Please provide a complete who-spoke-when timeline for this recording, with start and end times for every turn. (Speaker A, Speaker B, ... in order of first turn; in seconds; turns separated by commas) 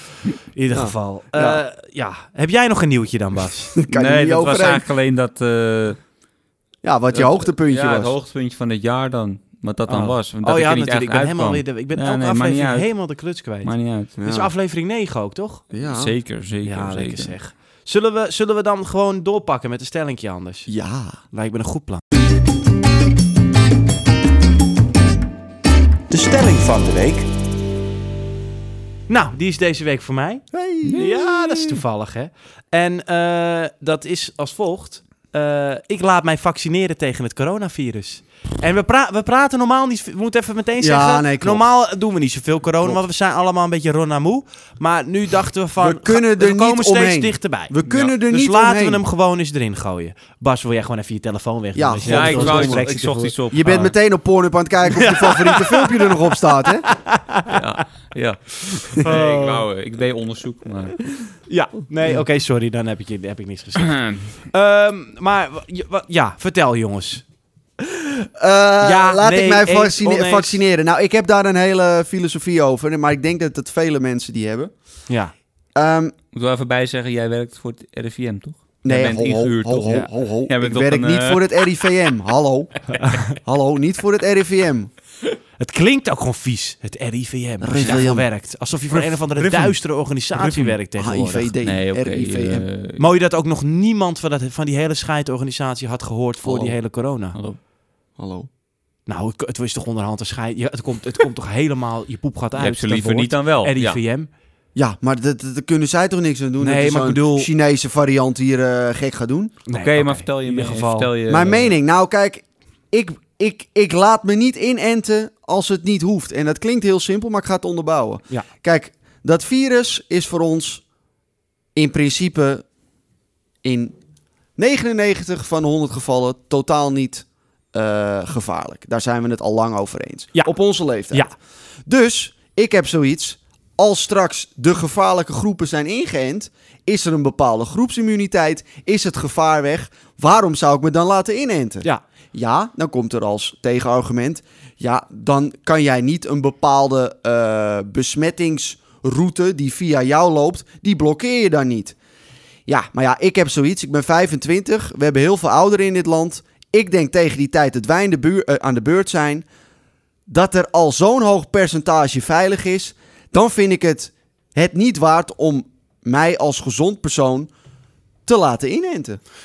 Speaker A: 0.6-3.7, Speaker B: 0.7-1.6, Speaker B: 3.8-4.8, Speaker C: 3.9-6.0, Speaker B: 6.8-8.1, Speaker C: 7.1-12.9, Speaker A: 9.9-15.7, Speaker C: 13.6-14.2, Speaker B: 14.2-14.5, Speaker B: 15.7-16.1, Speaker C: 15.8-17.3, Speaker A: 16.6-20.7, Speaker B: 20.7-21.2, Speaker A: 21.3-22.0, Speaker A: 26.1-27.3, Speaker A: 29.1-53.3, Speaker B: 30.5-31.4, Speaker B: 40.8-41.6, Speaker B: 45.8-49.0, Speaker B: 51.8-52.9, Speaker C: 52.0-54.0, Speaker B: 53.5-56.9, Speaker A: 54.9-57.6, Speaker C: 57.5-61.1, Speaker A: 59.0-59.6, Speaker A: 61.5-64.0, Speaker C: 63.8-64.3, Speaker A: 64.5-67.2, Speaker B: 67.9-74.7, Speaker A: 68.8-70.6, Speaker B: 75.8-76.1, Speaker C: 76.3-81.7, Speaker B: 78.8-82.7, Speaker A: 82.9-83.4, Speaker B: 83.3-84.9, Speaker A: 85.6-91.5, Speaker B: 87.6-88.3, Speaker C: 89.4-89.8, Speaker C: 90.3-90.8, Speaker B: 91.0-92.7, Speaker C: 91.6-93.0, Speaker A: 93.0-97.4, Speaker B: 96.4-96.8, Speaker C: 97.3-97.6, Speaker B: 98.2-98.5, Speaker A: 99.1-104.3, Speaker C: 102.6-104.0, Speaker B: 104.8-109.5, Speaker A: 106.6-107.5, Speaker A: 109.7-111.1, Speaker C: 109.7-111.7, Speaker B: 111.3-120.8, Speaker B: 121.8-122.6, Speaker B: 123.6-124.0, Speaker B: 124.6-131.3, Speaker B: 131.9-152.0, Speaker B: 152.7-159.5, Speaker B: 160.3-167.5, Speaker B: 168.3-169.2